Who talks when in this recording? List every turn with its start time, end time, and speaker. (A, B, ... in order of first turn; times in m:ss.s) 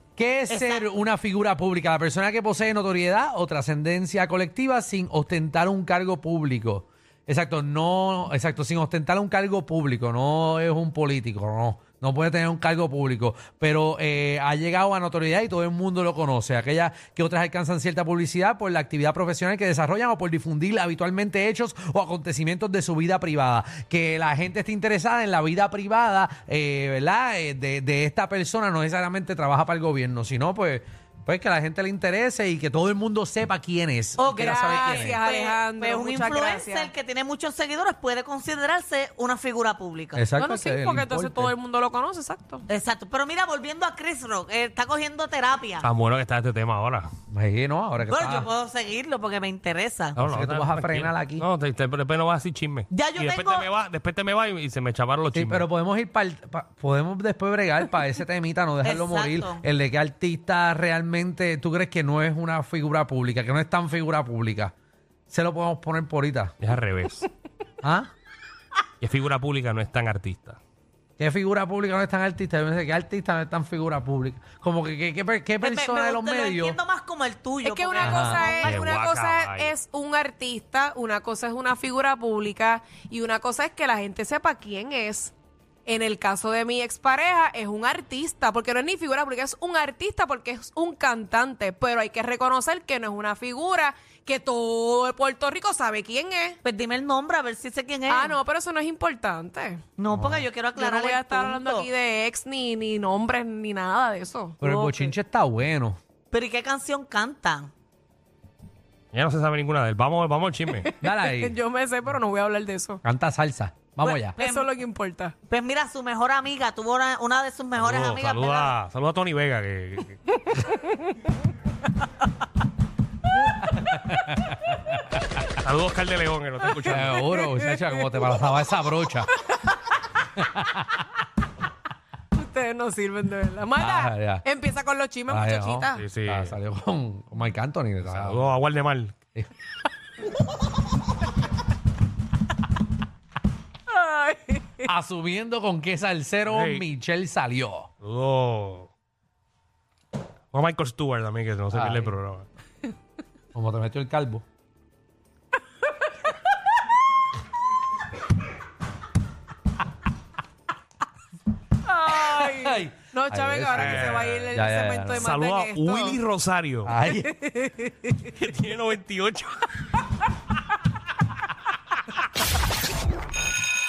0:00.2-0:35.2 A
0:00.5-0:00.9 B
0:34.2-0:40.2 B
0:34.3-0:36.9 C
0:40.1-0:41.5 A
0:40.4-0:42.6 C
0:42.7-0:45.9 B
0:45.8-0:47.1 D
0:47.3-0:48.5 A
0:48.1-0:50.1 B
0:50.2-0:51.5 A
0:50.2-0:55.6 D
0:52.9-0:53.7 B
0:55.3-1:04.7 A
0:58.8-0:59.6 B
1:05.3-1:06.5 A
1:06.6-1:07.3 D
1:07.8-1:08.1 A
1:09.0-1:10.6 D
1:11.2-1:16.8 A
1:15.6-1:18.8 B
1:17.6-1:25.3 C
1:18.0-1:18.5 A
1:18.6-1:19.7 D
1:25.8-1:36.6 C
1:36.6-1:38.4 B
1:38.1-1:39.8 C
1:40.0-1:41.9 B
1:40.1-1:40.4 A
1:40.7-1:44.6 C
1:44.6-1:46.0 A
1:44.6-1:45.1 B
1:46.3-1:47.7 B
1:49.1-1:50.9 D
1:50.8-1:53.0 C
1:51.0-1:51.6 A
1:53.0-1:54.3 A
1:54.0-1:54.7 B
1:54.3-1:55.3 C
1:55.5-1:58.7 B
1:57.8-2:00.2 D
2:00.5-2:01.1 C
2:03.7-2:05.2 A
2:05.6-2:07.2 D
2:06.7-2:08.3 C
2:06.8-2:09.3 A
2:10.4-2:10.8 A
2:12.3-2:16.0 C
2:13.8-2:14.4 A
2:15.3-2:18.5 A
2:15.9-2:16.6 D
2:18.0-2:19.1 D
2:23.9-2:24.9 C
2:24.8-2:27.9 A
2:26.4-2:26.8 D
2:28.0-2:28.9 D
2:30.5-2:32.5 D
2:31.7-2:32.1 A
2:33.5-2:34.4 A
2:41.8-2:46.2 C
2:42.1-2:45.3 A
2:43.7-2:44.5 D
2:45.1-2:46.9 D
2:46.8-2:47.4 A
2:47.2-2:48.1 C
2:48.3-2:49.7 D